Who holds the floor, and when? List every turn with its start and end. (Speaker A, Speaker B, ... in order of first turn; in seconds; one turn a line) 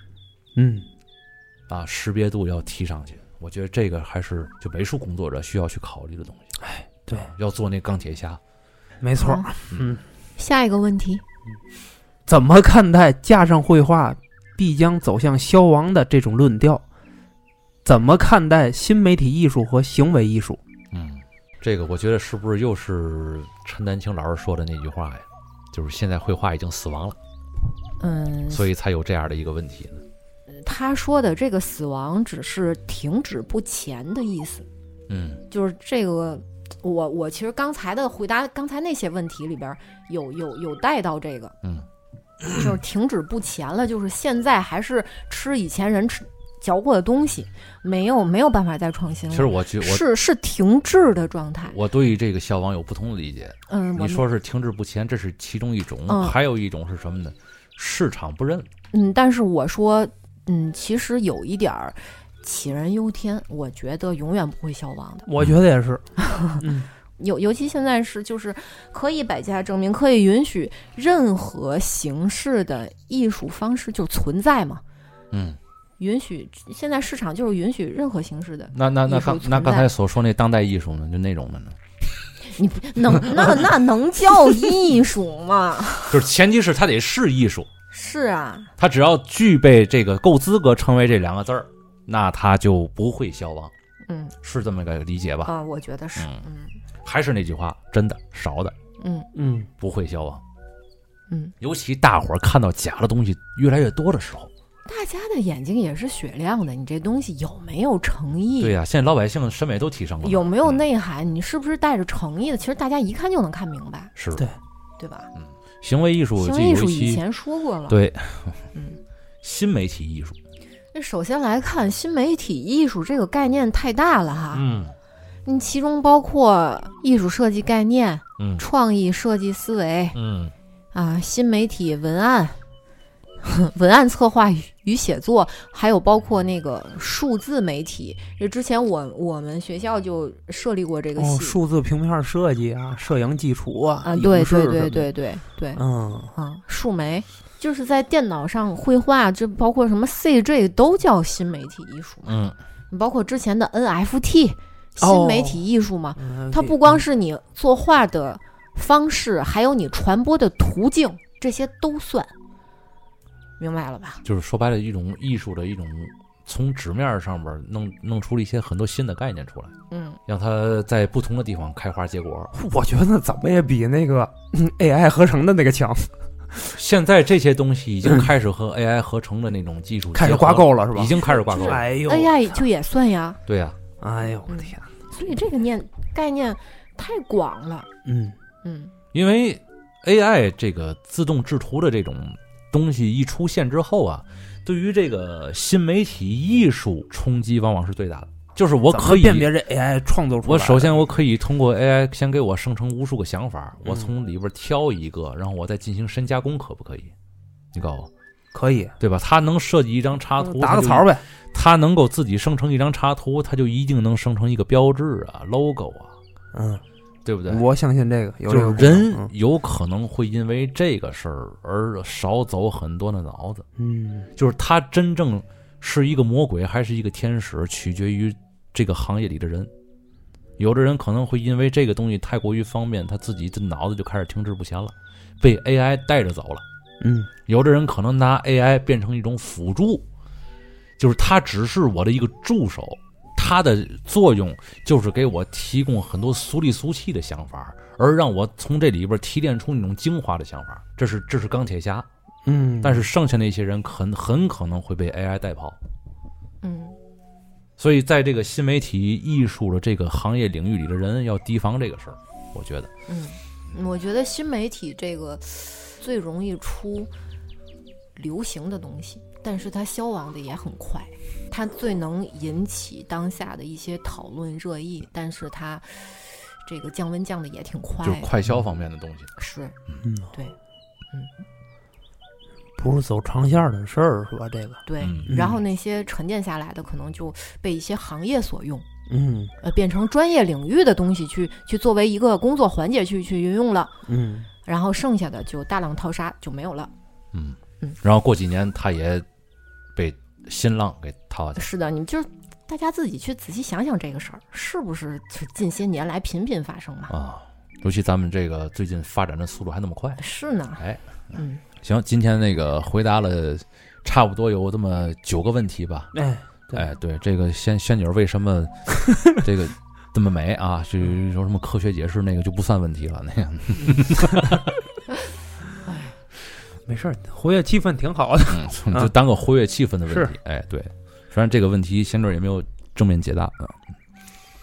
Speaker A: 0.6-0.9
Speaker B: 1.7-6.5
Speaker A: 6.6-7.3
Speaker B: 7.2-8.4
Speaker A: 9.0-10.0
Speaker C: 9.2-9.5
Speaker C: 10.4-11.2
Speaker A: 12.3-16.8
Speaker A: 17.9-20.6
Speaker B: 20.9-27.2
Speaker C: 28.0-28.7
Speaker B: 28.5-30.0
Speaker C: 30.5-34.7
Speaker B: 35.1-35.4
Speaker C: 35.5-41.5
Speaker B: 42.4-42.7
Speaker C: 42.5-51.8
Speaker B: 49.3-50.1
Speaker B: 51.7-58.7
Speaker C: 53.7-54.3
Speaker C: 56.1-56.4
Speaker C: 58.9-65.3
Speaker A: 65.3-66.9
Speaker C: 66.2-66.6
Speaker C: 67.2-74.8
Speaker B: 75.3-75.6
Speaker C: 76.0-79.9
Speaker B: 78.7-81.8
Speaker C: 82.6-86.2
Speaker B: 86.1-87.7
Speaker C: 87.9-88.7
Speaker B: 88.8-93.7
Speaker C: 94.1-94.3
Speaker B: 94.4-95.5
Speaker C: 95.5-96.7
Speaker B: 97.0-98.7
Speaker C: 99.0-99.3
Speaker A: 99.3-99.7
Speaker B: 99.8-100.4
Speaker B: 101.6-104.5
Speaker C: 104.9-108.7
Speaker B: 108.6-110.8
Speaker C: 110.2-114.1
Speaker B: 114.2-114.5
Speaker C: 115.0-115.3
Speaker B: 115.4-117.2
Speaker C: 116.4-118.0
Speaker B: 117.9-118.7
Speaker C: 118.8-119.0
Speaker B: 119.4-120.4
Speaker C: 120.9-124.7
Speaker B: 124.5-125.0
Speaker C: 125.5-130.2
Speaker B: 128.4-128.6
Speaker B: 130.1-130.5
Speaker C: 130.9-132.6
Speaker C: 133.4-141.6
Speaker A: 141.2-145.1
Speaker C: 144.0-145.8
Speaker A: 145.8-146.3
Speaker C: 146.3-152.4
Speaker B: 152.2-152.6
Speaker C: 152.9-162.3
Speaker A: 155.0-155.7
Speaker A: 156.2-157.0
Speaker C: 163.6-164.2
Speaker B: 164.2-169.7
Speaker C: 169.9-170.2
Speaker B: 170.3-172.5
Speaker A: 172.5-176.7
Speaker B: 176.7-181.9
Speaker A: 180.1-182.6
Speaker C: 181.6-183.4
Speaker B: 183.5-183.8
Speaker A: 184.0-184.8
Speaker C: 184.5-187.9
Speaker A: 188.1-188.4
Speaker C: 188.6-188.9
Speaker B: 189.1-199.5
Speaker A: 198.9-201.2
Speaker B: 200.4-207.1
Speaker B: 207.7-208.1
Speaker A: 208.5-208.9
Speaker B: 209.0-216.2
Speaker A: 210.4-211.2
Speaker A: 216.5-216.8
Speaker B: 217.2-217.7
Speaker A: 217.5-219.3
Speaker B: 218.5-223.7
Speaker A: 223.8-224.3
Speaker B: 224.4-229.7
Speaker B: 230.6-236.6
Speaker A: 237.0-237.3
Speaker B: 237.5-240.1
Speaker B: 241.0-252.1
Speaker A: 252.4-253.1
Speaker B: 252.8-255.8
Speaker C: 256.6-257.0
Speaker B: 257.8-262.9
Speaker C: 263.1-267.1
Speaker C: 268.2-278.3
Speaker B: 278.0-279.3
Speaker C: 279.4-279.8
Speaker A: 280.0-280.3
Speaker A: 282.8-285.6
Speaker C: 284.9-288.9
Speaker B: 285.0-285.3
Speaker A: 289.1-289.5
Speaker C: 289.6-293.9
Speaker A: 294.1-294.5
Speaker C: 294.6-296.9
Speaker B: 297.3-299.3
Speaker B: 299.9-301.7
Speaker C: 301.6-307.1
Speaker B: 307.1-310.2
Speaker C: 310.2-310.8
Speaker B: 310.8-316.1
Speaker C: 311.3-311.6
Speaker A: 316.1-316.9
Speaker B: 316.7-318.7
Speaker B: 319.2-324.7
Speaker C: 325.9-326.1
Speaker A: 326.9-329.1
Speaker B: 328.5-333.8
Speaker A: 330.1-330.3